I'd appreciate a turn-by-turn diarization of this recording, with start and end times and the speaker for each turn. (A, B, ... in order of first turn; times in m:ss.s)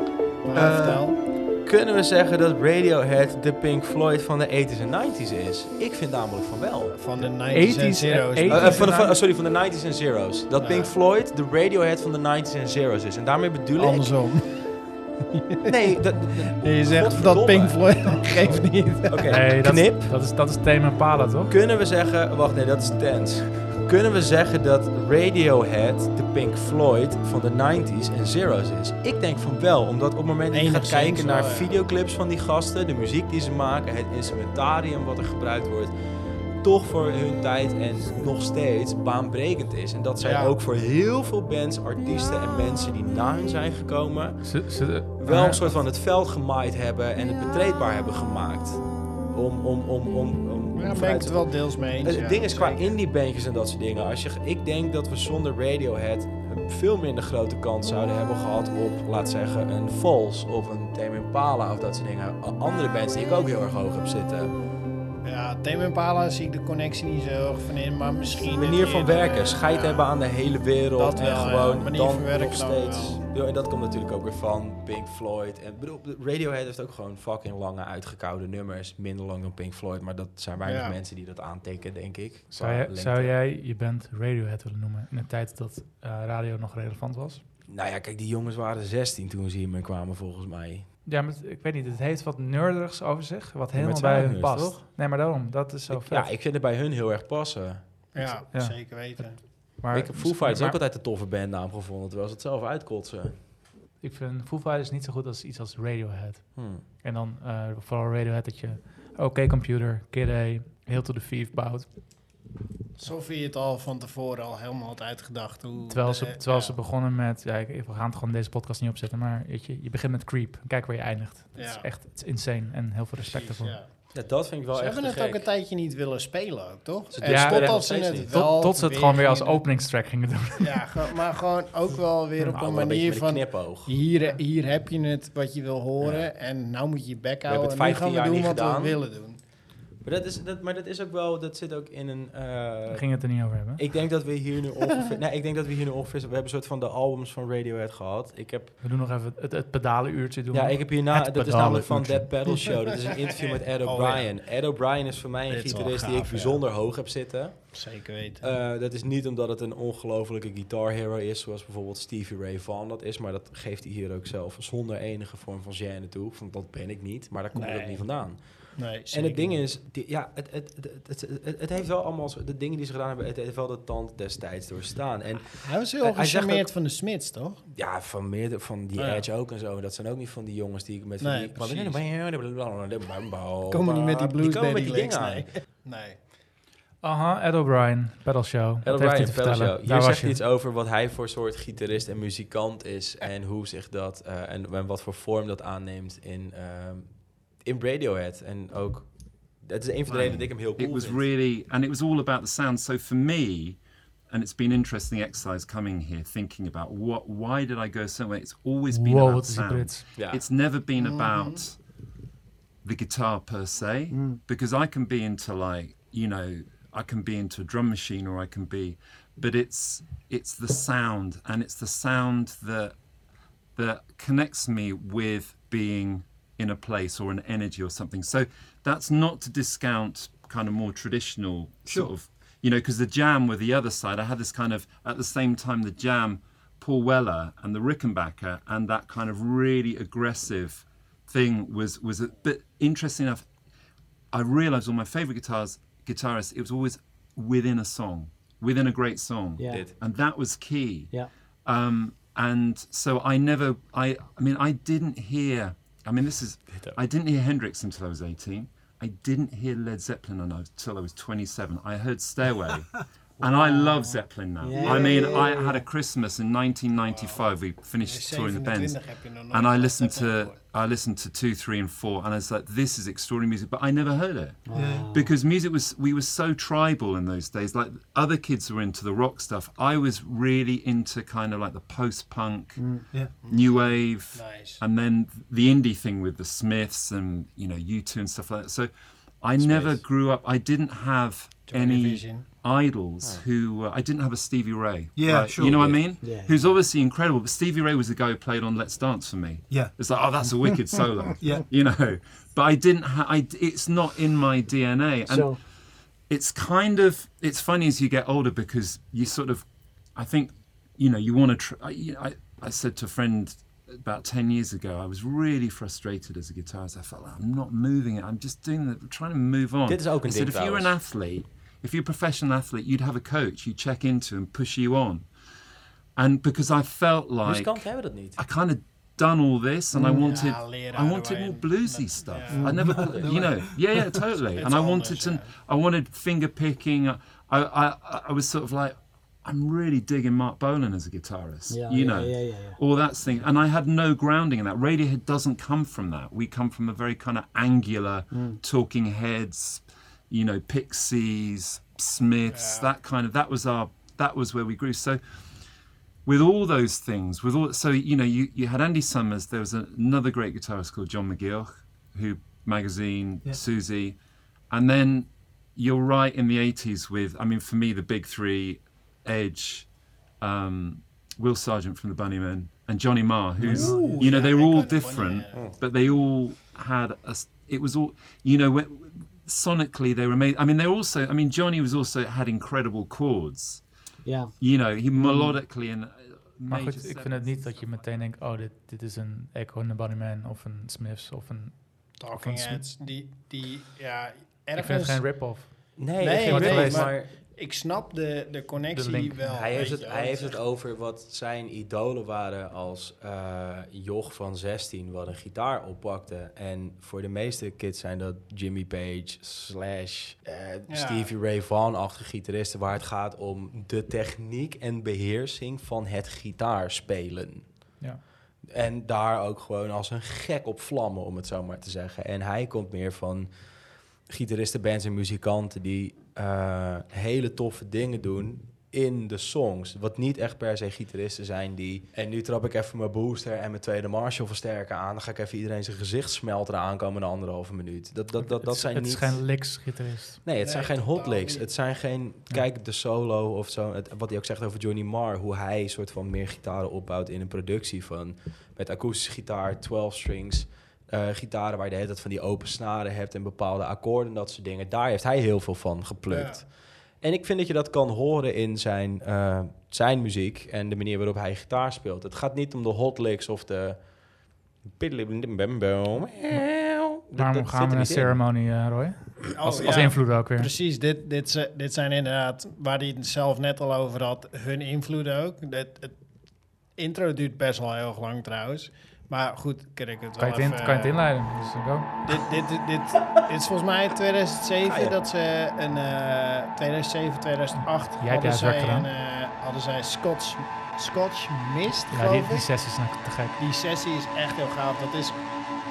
0:00.4-0:01.2 A
0:00.5-0:07.0 B
0:06.9-0:08.9 A
0:07.5-0:09.2 C
0:08.5-0:14.1 B
0:10.6-0:10.9 A
0:13.8-0:14.7 A
0:15.3-0:15.7 A
0:15.6-0:20.1 B
0:16.5-0:19.3 A
0:19.3-0:21.5 C
0:21.5-0:35.9 B
0:30.5-0:31.7 A
0:36.6-0:44.5 B
0:40.2-0:40.5 A
0:44.4-0:45.8 C
0:45.2-0:51.5 B
0:50.8-0:53.0 A
0:52.0-1:04.6 B
1:05.2-1:10.0 A
1:08.5-1:23.3 B
1:11.0-1:13.2 A
1:20.6-1:20.9 A
1:22.6-1:27.4 C
1:27.7-1:30.9 B
1:31.0-1:36.3 C
1:33.7-1:34.8 B
1:35.9-1:37.8 B
1:38.1-1:39.4 A
1:38.2-1:40.8 C
1:39.9-1:43.4 B
1:44.0-1:51.9 C
1:46.6-1:46.8 B
1:53.0-1:56.7 A
1:55.9-2:03.8 C
2:01.6-2:01.8 A
2:03.2-2:03.9 A
2:04.1-2:05.4 B
2:04.7-2:09.6 A
2:07.1-2:08.3 B
2:07.2-2:11.1 C
2:10.6-2:19.4 A
2:12.5-2:13.9 B
2:16.0-2:16.3 B
2:17.5-2:19.0 B
2:20.0-2:23.0 B
2:22.9-2:23.8 C
2:23.8-2:28.8 B
2:28.8-2:32.7 C
2:30.5-2:37.8 B
2:32.7-2:34.3 A
2:35.5-2:36.6 A
2:37.7-2:38.5 A
2:38.4-2:48.4 B
2:47.5-2:48.0 A
2:48.8-2:49.6 A
2:49.1-2:56.7 B
2:55.6-2:57.6 A
2:57.7-3:05.5 B
2:59.0-2:59.3 A
3:01.2-3:02.0 A
3:03.7-3:06.2 A
3:07.0-3:10.4 C
3:08.8-3:17.1 B
3:17.6-3:19.1 B
3:19.6-3:21.2 B
3:20.1-3:23.8 D
3:24.3-3:31.8 D
3:28.9-3:30.1 C
3:30.2-3:30.4 B
3:31.0-3:31.6 A
3:32.8-3:43.0 D
3:34.1-3:34.4 E
3:43.8-4:03.4 D
4:04.3-4:11.1 D
4:09.6-4:09.9 E
4:09.7-4:09.9 B
4:11.6-4:42.8 D
4:16.7-4:17.0 B
4:23.4-4:25.8 E
4:24.8-4:25.4 A
4:27.0-4:30.6 A
4:34.6-4:35.3 E
4:42.8-4:43.2 E
4:43.4-5:05.6 D
4:43.4-4:44.8 A
4:49.6-4:50.0 B
4:51.7-4:52.4 A
4:56.0-4:56.6 E
5:05.3-5:05.6 E
5:06.3-5:09.6 D
5:10.2-5:25.3 D
5:19.9-5:20.9 B
5:26.2-5:55.2 D
5:27.4-5:28.4 B
5:30.2-5:32.8 A
5:32.5-5:33.2 E
5:32.9-5:33.5 B
5:34.6-5:35.5 A
5:41.7-5:42.8 E
5:48.3-5:48.6 E
5:52.5-5:52.9 A
5:56.2-6:04.2 D
6:04.7-6:09.9 D
6:10.4-6:23.8 D
6:13.6-6:14.3 B
6:13.7-6:15.6 A
6:15.5-6:15.8 B
6:24.2-6:24.5 E
6:24.6-6:27.9 D
6:25.2-6:25.6 C
6:26.7-6:31.7 C
6:32.2-6:35.2 A
6:32.3-6:32.8 C
6:34.8-6:35.9 C
6:36.0-6:37.3 B
6:36.2-6:40.6 A
6:36.4-6:37.1 C
6:38.9-6:39.9 C
6:39.5-6:57.6 B
6:50.9-6:51.3 A
6:58.7-7:03.5 B
7:04.3-7:19.4 B
7:18.4-7:20.4 C
7:20.4-7:36.6 B
7:20.6-7:21.6 A
7:36.3-7:36.6 A
7:37.2-7:44.0 B
7:44.9-7:48.4 B
7:47.4-7:50.7 C
7:49.5-7:56.2 A
7:49.6-7:50.1 B
7:57.0-8:01.2 A
8:00.4-8:02.1 C
8:02.2-8:12.6 A
8:04.8-8:05.2 B
8:08.1-8:09.1 C
8:12.1-8:13.6 C
8:13.6-8:15.4 A